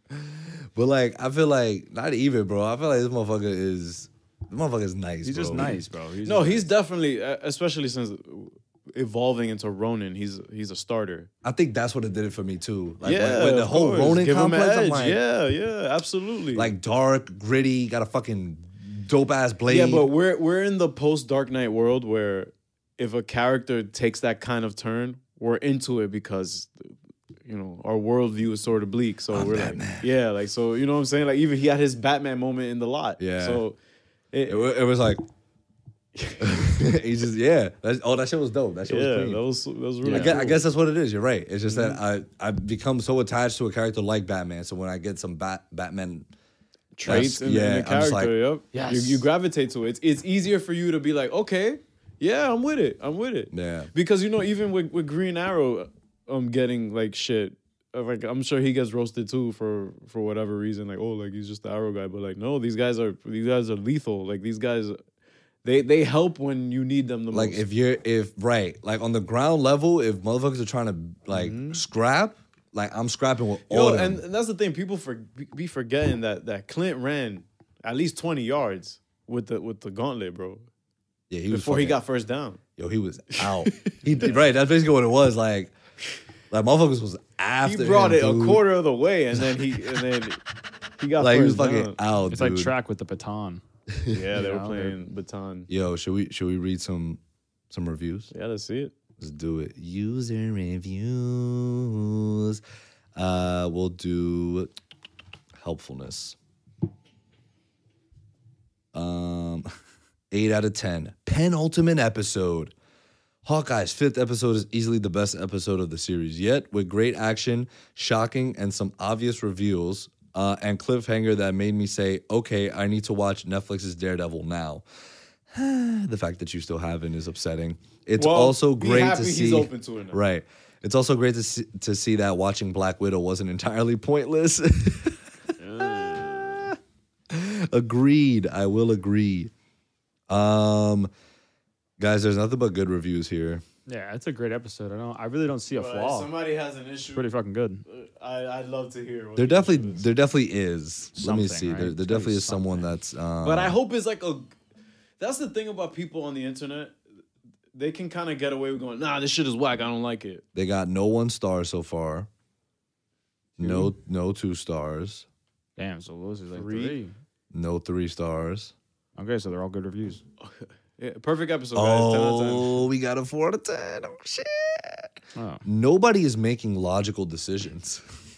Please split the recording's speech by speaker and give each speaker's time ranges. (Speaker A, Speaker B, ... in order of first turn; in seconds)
Speaker A: 0.1-5.8, 11.4-15.2, 16.5-20.1, 29.3-30.1, 33.2-33.6, 34.5-35.2, 36.4-39.4, 40.0-46.3, 47.0-48.3, 53.5-53.9, 67.3-74.2, 81.3-82.0, 82.8-85.7, 86.5-88.6, 91.2-92.7, 95.7-97.2, 97.7-98.3, 99.2-102.6, 103.1-104.7, 105.6-106.4, 108.9-109.7, 110.3-112.7, 113.4-124.8, 125.5-135.2, 135.8-136.8, 137.3-139.5, 140.3-141.1, 142.0-143.6, 149.4-153.8, 160.5-162.3, 163.6-165.2, 167.5-168.7, 171.7-175.1, 175.6-178.0
Speaker B: 5.2-6.7, 40.0-40.4, 48.7-49.2, 92.3-93.6, 94.3-95.0, 135.6-136.6, 143.8-146.3, 147.1-147.8, 151.2-152.9, 165.8-167.1, 169.2-170.2, 175.3-175.6
Speaker C: 6.2-11.3, 13.0-16.7, 19.7-26.9, 27.4-33.8, 34.3-34.7, 36.1-36.9, 38.9-40.6, 41.7-42.0, 47.0-65.0, 65.6-67.6, 71.3-71.8, 73.7-80.6, 81.5-82.6, 83.3-84.4, 87.6-90.4, 91.0-92.0, 94.1-95.7, 98.3-98.9, 128.2-130.2, 145.7-147.2, 147.9-150.1, 153.4-154.5, 155.2-157.0, 157.7-160.4, 163.6-163.9, 166.5-167.0, 170.4-172.9